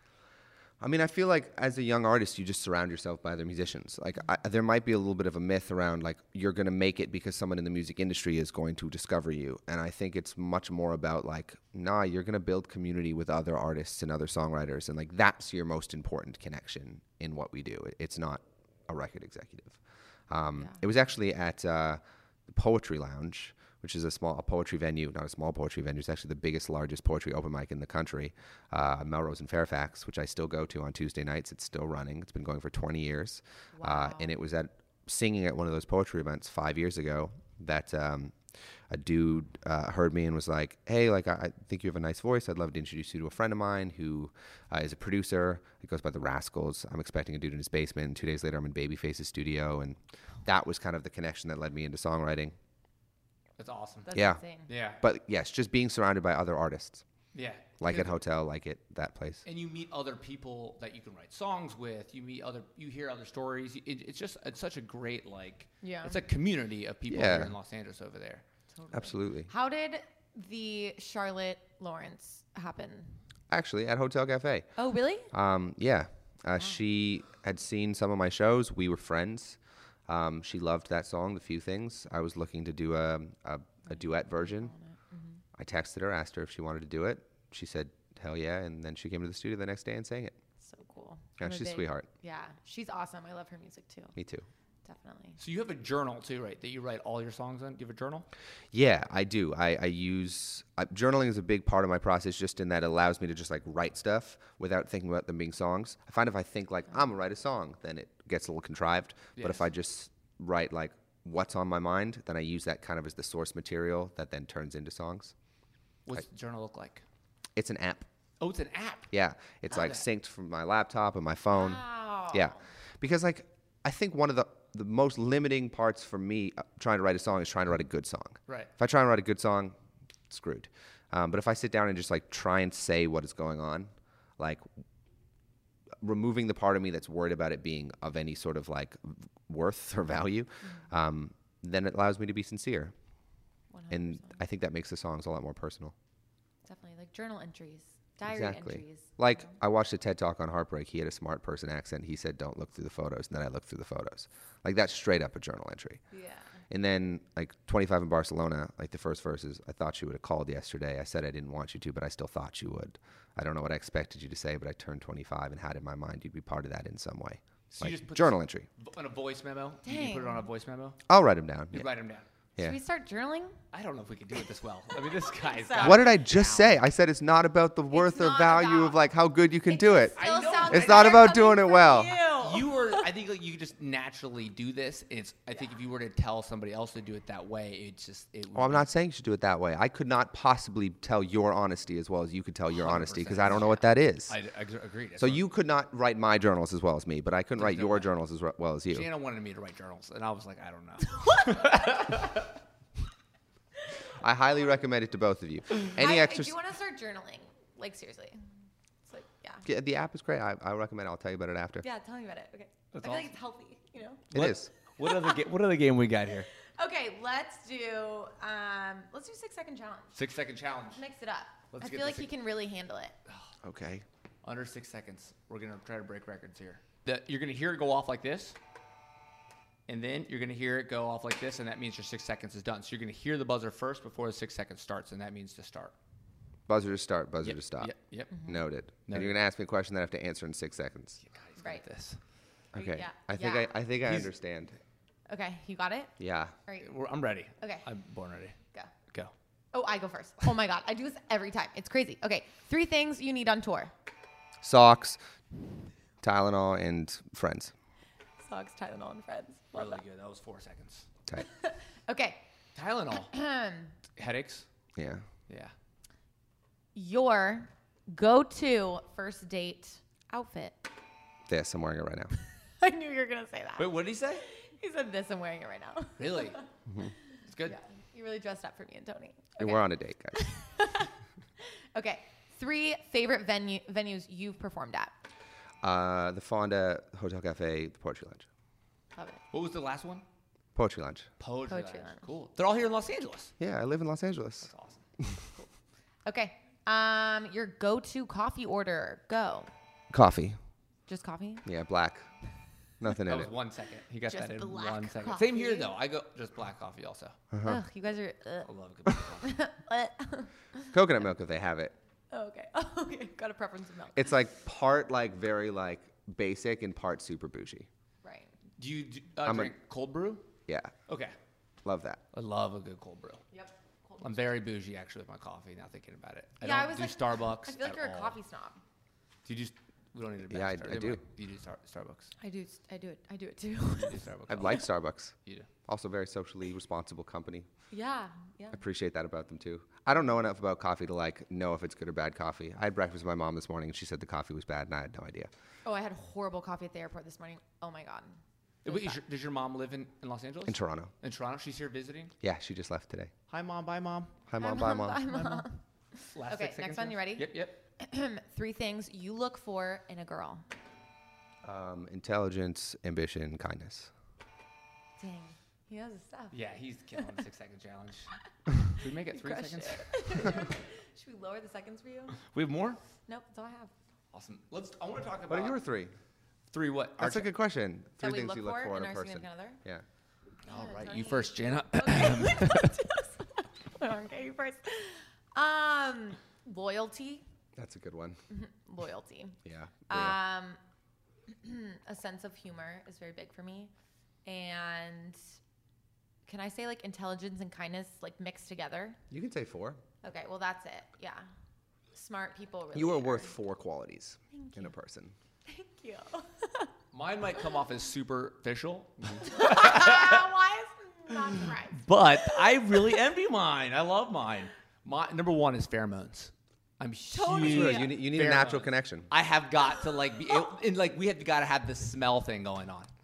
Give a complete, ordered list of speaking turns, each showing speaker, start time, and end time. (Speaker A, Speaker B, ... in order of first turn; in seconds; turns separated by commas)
Speaker A: 0.8-52.5, Speaker B: 33.8-34.3, Speaker C: 53.6-54.1, Speaker B: 54.0-54.7, Speaker A: 54.1-54.4, Speaker C: 54.7-55.0, Speaker A: 55.0-57.0, Speaker C: 57.3-58.1, Speaker A: 57.8-59.4, Speaker C: 59.4-68.4, Speaker B: 65.8-66.2, Speaker A: 67.1-67.5, Speaker B: 68.7-73.2, Speaker A: 68.9-69.5, Speaker A: 73.5-74.7, Speaker B: 74.8-75.3, Speaker A: 75.3-84.7, Speaker B: 83.9-85.4, Speaker A: 85.5-90.4, Speaker B: 90.6-94.2, Speaker A: 91.4-92.1, Speaker A: 94.2-94.5, Speaker B: 94.8-95.4, Speaker C: 95.4-98.3, Speaker A: 98.7-115.3, Speaker C: 109.4-109.6, Speaker C: 116.0-117.0, Speaker A: 117.5-118.1, Speaker C: 118.4-119.1, Speaker A: 119.1-129.8, Speaker C: 119.7-120.0, Speaker B: 121.5-122.6, Speaker A: 130.3-134.6, Speaker A: 136.0-142.9, Speaker B: 140.6-140.9, Speaker B: 143.7-144.4, Speaker A: 143.9-145.9, Speaker B: 146.6-149.6, Speaker A: 148.2-156.0, Speaker B: 156.1-156.6, Speaker A: 156.7-168.7, Speaker C: 167.7-171.0, Speaker B: 169.8-170.4, Speaker A: 171.1-171.9, Speaker C: 171.7-172.2, Speaker B: 172.6-173.6, Speaker C: 173.7-176.8, Speaker B: 175.2-176.0, Speaker A: 175.8-182.2, Speaker B: 177.9-179.0, Speaker B: 179.7-183.1, Speaker C: 180.2-181.3, Speaker C: 182.3-188.8, Speaker A: 188.5-194.3, Speaker C: 192.8-195.4, Speaker A: 195.2-199.1, Speaker C: 197.6-198.1, Speaker C: 198.9-202.5, Speaker B: 201.2-201.9, Speaker A: 204.2-206.5, Speaker B: 205.9-208.4, Speaker B: 209.1-209.7, Speaker A: 209.6-211.8, Speaker B: 211.8-214.3, Speaker C: 212.9-213.3, Speaker A: 214.3-214.7, Speaker C: 214.3-216.5, Speaker B: 214.9-215.4, Speaker B: 216.7-220.2, Speaker C: 220.1-221.0, Speaker B: 220.9-223.2, Speaker C: 221.7-222.3, Speaker A: 223.6-224.0, Speaker C: 224.4-228.6, Speaker C: 229.9-235.9, Speaker A: 236.7-237.9, Speaker C: 237.4-239.4, Speaker B: 238.3-238.6, Speaker A: 238.4-241.2, Speaker C: 241.2-242.2, Speaker B: 241.6-241.8, Speaker A: 242.7-244.8, Speaker B: 242.7-243.7, Speaker C: 244.0-244.3, Speaker B: 245.3-246.1, Speaker A: 246.2-246.5, Speaker C: 246.8-248.6, Speaker B: 247.6-247.8, Speaker B: 249.7-253.9, Speaker A: 254.6-255.2, Speaker A: 256.2-257.7, Speaker B: 258.4-260.0, Speaker C: 259.7-261.1, Speaker B: 261.4-262.4, Speaker C: 262.7-263.3, Speaker B: 263.1-263.9, Speaker C: 264.1-264.7, Speaker A: 264.9-265.2, Speaker B: 266.9-270.8, Speaker A: 271.5-272.3, Speaker B: 272.8-276.6, Speaker C: 273.8-274.4, Speaker C: 276.2-276.6, Speaker A: 276.9-277.1, Speaker C: 277.5-277.8, Speaker B: 277.6-281.1, Speaker A: 279.6-280.4, Speaker B: 281.9-285.1, Speaker A: 285.8-288.5, Speaker B: 289.1-289.4, Speaker C: 289.5-290.2, Speaker A: 290.7-291.3, Speaker C: 291.4-293.5, Speaker B: 291.7-292.2, Speaker A: 293.6-295.4, Speaker C: 294.6-295.0, Speaker B: 296.2-299.7, Speaker A: 300.1-300.6, Speaker B: 301.1-301.6, Speaker A: 301.6-302.2, Speaker A: 303.0-303.5, Speaker C: 303.2-307.4, Speaker B: 304.3-305.9, Speaker A: 307.5-307.8, Speaker B: 307.6-310.9, Speaker C: 308.6-309.5, Speaker A: 310.9-311.9, Speaker B: 312.3-314.3, Speaker A: 314.1-317.9, Speaker B: 318.2-318.5, Speaker C: 318.8-320.5, Speaker A: 319.4-319.7, Speaker A: 320.7-320.9, Speaker C: 321.1-321.3, Speaker A: 321.8-322.2, Speaker C: 322.3-323.4, Speaker B: 323.5-324.6, Speaker C: 324.2-328.4, Speaker B: 326.6-328.8, Speaker C: 329.4-332.3, Speaker A: 330.5-331.2, Speaker B: 332.4-334.2, Speaker C: 334.0-334.9, Speaker A: 334.5-337.7, Speaker C: 335.4-335.7, Speaker B: 337.9-338.8, Speaker A: 338.7-345.5, Speaker B: 345.8-349.2, Speaker C: 348.8-352.3, Speaker A: 350.7-351.1, Speaker A: 352.4-353.3, Speaker C: 353.5-354.4, Speaker A: 354.5-355.2, Speaker B: 354.6-360.6, Speaker C: 355.2-355.7, Speaker C: 356.3-357.8, Speaker A: 361.6-364.1, Speaker B: 365.2-366.6, Speaker C: 366.5-370.6, Speaker B: 368.9-372.4, Speaker C: 372.4-373.0, Speaker B: 373.3-373.9, Speaker C: 374.3-375.8, Speaker A: 375.5-376.1, Speaker C: 376.7-377.5, Speaker A: 377.2-380.0, Speaker B: 378.2-379.8, Speaker C: 380.6-383.0, Speaker B: 380.7-387.4, Speaker A: 387.8-388.4, Speaker B: 388.5-390.8, Speaker A: 389.6-390.4, Speaker B: 391.5-393.9, Speaker B: 394.4-395.4, Speaker B: 396.5-399.2, Speaker A: 399.3-400.0, Speaker B: 400.2-401.5, Speaker B: 402.1-403.5, Speaker A: 402.9-405.3, Speaker B: 404.5-404.9, Speaker B: 405.7-406.9, Speaker C: 407.1-410.5, Speaker B: 409.4-412.6, Speaker C: 411.3-423.1, Speaker B: 417.3-418.2, Speaker A: 417.6-419.3